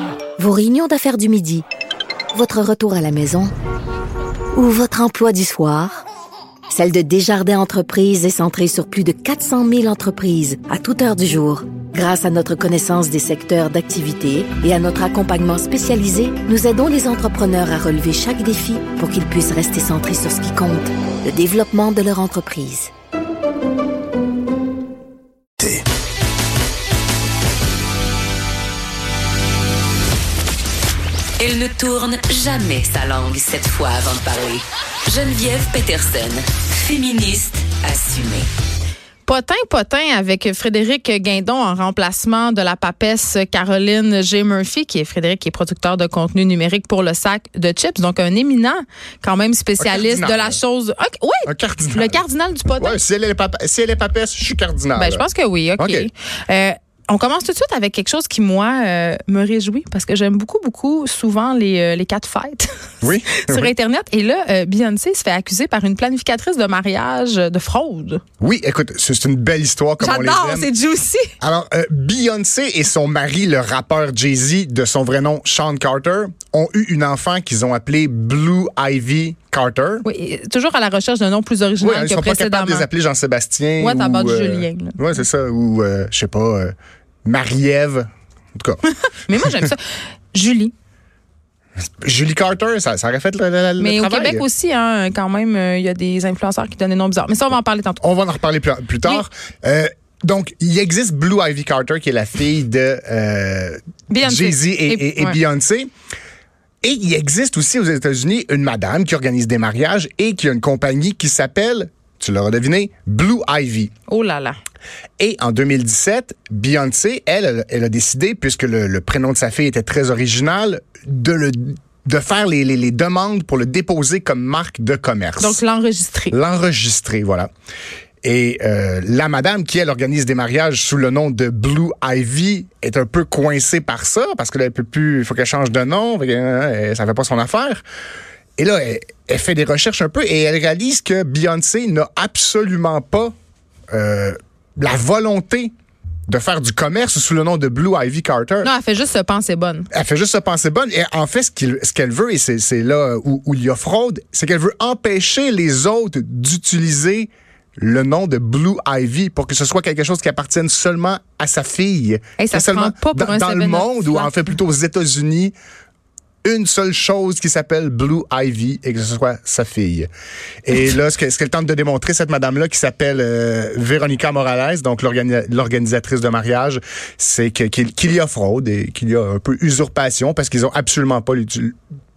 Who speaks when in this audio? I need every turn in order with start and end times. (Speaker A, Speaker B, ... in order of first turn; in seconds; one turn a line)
Speaker A: 0.4-1.6
Speaker A: 2.3-3.5
Speaker A: 4.5-6.0
Speaker A: 6.7-22.9
Speaker B: 31.4-38.5
Speaker C: 39.2-53.0
Speaker D: 49.8-50.6
Speaker D: 51.5-52.2
Speaker D: 52.8-55.3
Speaker C: 55.0-68.2
Speaker D: 55.8-56.1
Speaker D: 63.0-63.7
Speaker D: 68.4-70.7
Speaker C: 70.0-71.3
Speaker D: 71.4-80.0
Speaker C: 80.0-82.9
Speaker D: 81.8-86.7
Speaker C: 83.8-85.0
Speaker D: 87.2-89.7
Speaker C: 89.2-90.7
Speaker D: 92.0-94.5
Speaker C: 93.8-98.0
Speaker D: 98.0-105.9
Speaker C: 104.1-105.4
Speaker D: 106.8-113.9
Speaker C: 114.1-114.6
Speaker D: 115.2-125.6
Speaker C: 125.4-126.4
Speaker D: 126.3-127.5
Speaker D: 128.2-137.8
Speaker D: 138.6-143.3
Speaker D: 143.9-145.7
Speaker D: 146.3-148.7
Speaker C: 148.6-149.9
Speaker D: 149.9-165.6
Speaker C: 162.4-164.3
Speaker D: 166.4-170.1
Speaker D: 170.6-181.8